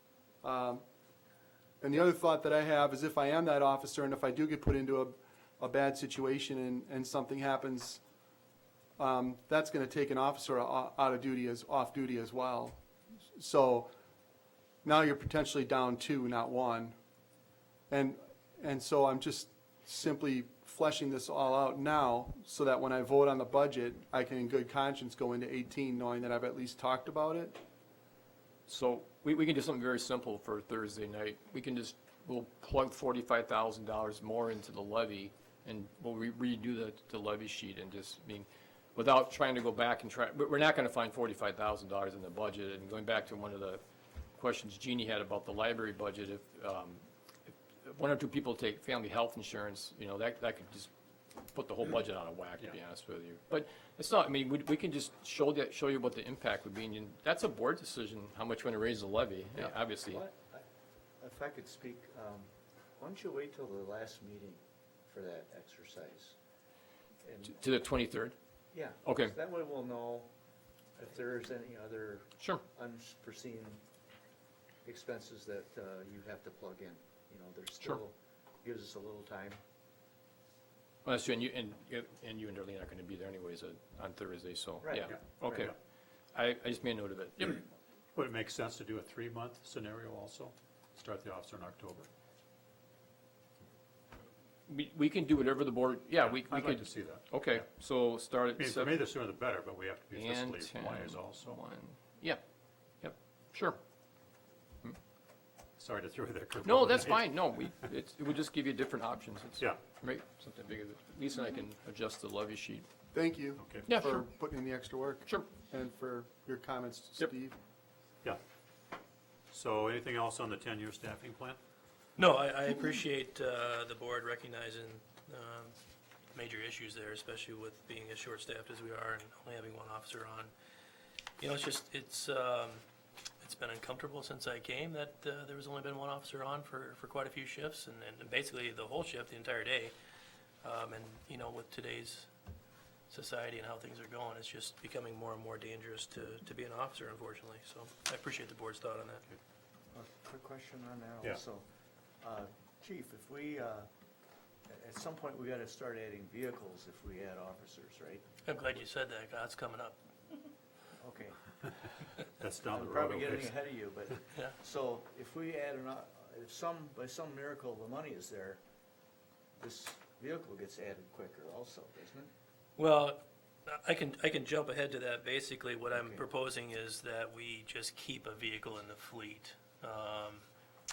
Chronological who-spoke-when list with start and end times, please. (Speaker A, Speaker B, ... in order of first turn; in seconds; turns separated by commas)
Speaker A: 0.4-0.8, Speaker A: 1.8-8.0, Speaker A: 9.0-12.8, Speaker A: 13.3-13.9, Speaker A: 14.8-16.9, Speaker A: 17.9-27.6, Speaker B: 28.7-43.8, Speaker B: 44.4-50.9, Speaker B: 51.5-60.2, Speaker C: 59.6-60.6, Speaker C: 61.2-66.3, Speaker C: 67.2-67.5, Speaker B: 67.5-68.3, Speaker C: 68.7-70.3, Speaker B: 69.0-69.3, Speaker C: 71.0-73.8, Speaker C: 74.8-79.6, Speaker B: 81.0-85.7, Speaker C: 84.8-85.1, Speaker D: 85.1-85.7, Speaker B: 86.3-87.6, Speaker D: 88.1-92.1, Speaker B: 94.7-99.0, Speaker D: 96.2-97.6, Speaker D: 98.6-101.6, Speaker B: 100.1-102.4, Speaker B: 103.0-103.8, Speaker D: 105.8-107.3, Speaker B: 106.6-112.8, Speaker A: 113.1-117.5, Speaker D: 113.6-113.9, Speaker B: 113.8-114.3, Speaker D: 119.5-121.6, Speaker E: 122.2-125.7, Speaker E: 126.3-130.5, Speaker E: 131.4-132.8, Speaker E: 133.4-139.9, Speaker E: 140.6-142.3, Speaker E: 143.1-149.2, Speaker C: 149.9-151.6, Speaker C: 152.2-153.9, Speaker C: 154.7-158.2, Speaker E: 158.4-160.0, Speaker C: 161.0-161.4, Speaker D: 162.4-163.6, Speaker C: 162.7-168.6, Speaker C: 169.6-172.3, Speaker E: 172.8-180.4, Speaker C: 175.9-176.2